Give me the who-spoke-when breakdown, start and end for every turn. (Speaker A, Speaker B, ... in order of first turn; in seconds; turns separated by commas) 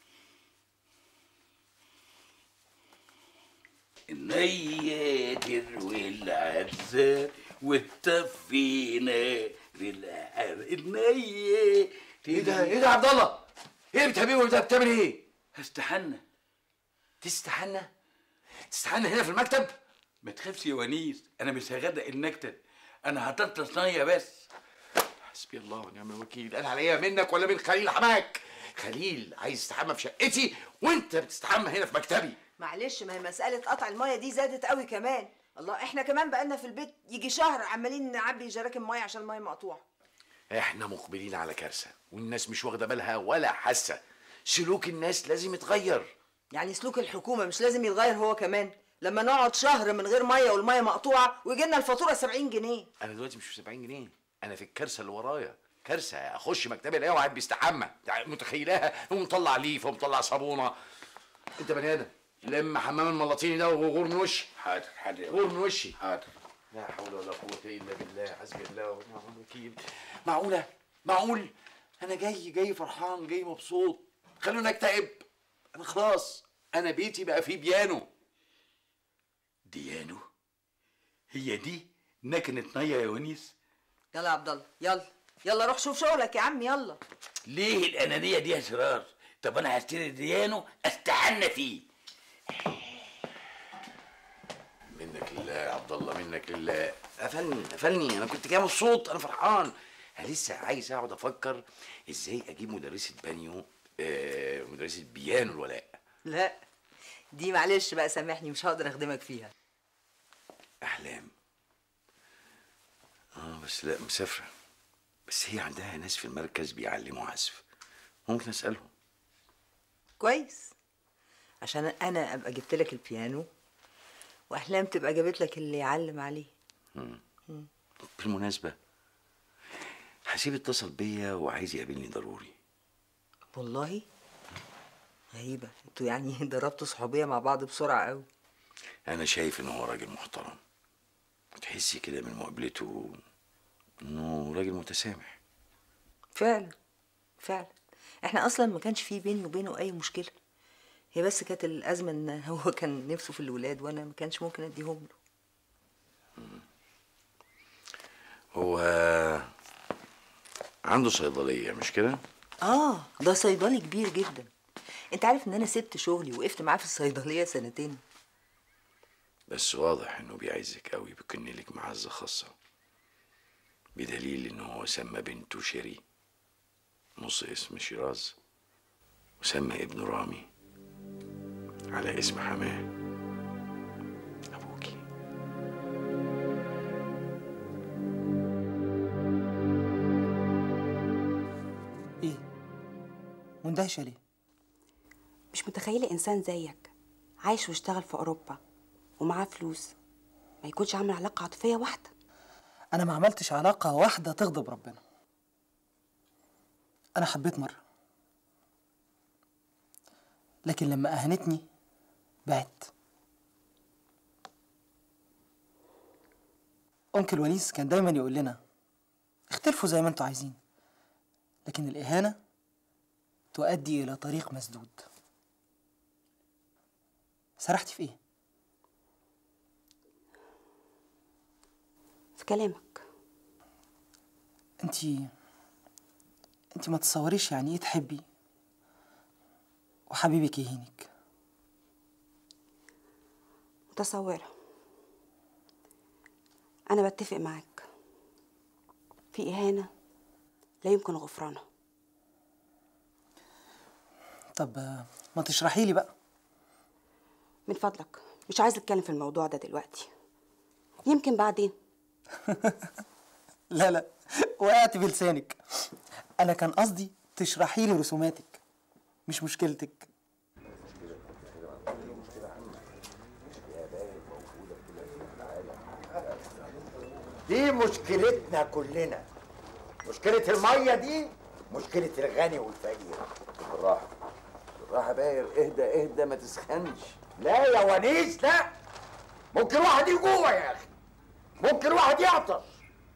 Speaker A: 4.1-12.9, Speaker B: 12.3-15.2, Speaker A: 15.6-16.2, Speaker B: 17.2-17.9, Speaker B: 18.7-19.7, Speaker A: 20.2-24.5, Speaker B: 25.2-32.4, Speaker C: 32.6-39.8, Speaker B: 40.5-46.1, Speaker C: 46.5-52.9, Speaker B: 53.0-60.8, Speaker B: 61.6-64.5, Speaker A: 64.6-65.4, Speaker B: 65.3-66.0, Speaker B: 66.7-78.1, Speaker B: 79.8-80.2, Speaker A: 81.3-83.5, Speaker C: 84.1-87.0, Speaker A: 87.5-91.8, Speaker B: 94.9-106.0, Speaker C: 106.3-106.6, Speaker C: 107.3-109.5, Speaker B: 110.8-111.3, Speaker B: 113.3-114.5, Speaker B: 115.3-117.6, Speaker B: 118.3-118.9, Speaker C: 120.2-120.7, Speaker C: 121.6-123.5, Speaker C: 124.5-126.5, Speaker B: 127.0-127.2, Speaker B: 128.1-128.8, Speaker B: 130.3-132.6, Speaker C: 133.6-134.1, Speaker C: 135.3-138.3, Speaker B: 139.1-140.6, Speaker B: 141.6-143.2, Speaker B: 144.0-145.4, Speaker C: 146.3-146.8, Speaker C: 147.4-147.7, Speaker C: 148.2-150.3, Speaker C: 151.2-155.1, Speaker B: 156.4-156.6, Speaker B: 158.5-159.5, Speaker B: 160.8-162.2, Speaker C: 162.6-164.5, Speaker C: 165.1-168.0, Speaker B: 169.5-172.5, Speaker B: 173.9-176.0, Speaker B: 177.2-178.4, Speaker B: 179.4-180.5, Speaker B: 181.9-182.9, Speaker B: 184.5-185.0, Speaker D: 193.6-194.2, Speaker E: 195.5-196.9, Speaker E: 197.4-198.6, Speaker E: 199.2-199.9, Speaker E: 200.6-202.1, Speaker D: 202.9-205.0, Speaker D: 207.2-207.8, Speaker D: 210.7-211.7, Speaker D: 212.5-212.9, Speaker D: 217.1-218.6, Speaker D: 219.5-220.6, Speaker D: 221.7-222.4, Speaker D: 223.5-225.1, Speaker D: 227.6-228.2, Speaker E: 232.4-233.0, Speaker D: 234.8-235.3, Speaker D: 236.8-238.2, Speaker D: 240.1-241.1, Speaker E: 243.9-244.5, Speaker E: 246.9-247.8, Speaker E: 249.3-249.9, Speaker E: 250.8-251.6, Speaker D: 254.6-256.1, Speaker E: 257.7-260.1, Speaker E: 261.1-261.8, Speaker D: 263.7-265.6, Speaker D: 266.4-268.6, Speaker D: 269.3-270.1, Speaker B: 270.7-272.9, Speaker B: 273.4-276.7, Speaker F: 277.5-279.2, Speaker F: 280.0-283.3, Speaker B: 283.6-284.1, Speaker B: 284.8-287.2, Speaker F: 287.4-288.7, Speaker F: 289.5-290.9, Speaker F: 291.6-292.8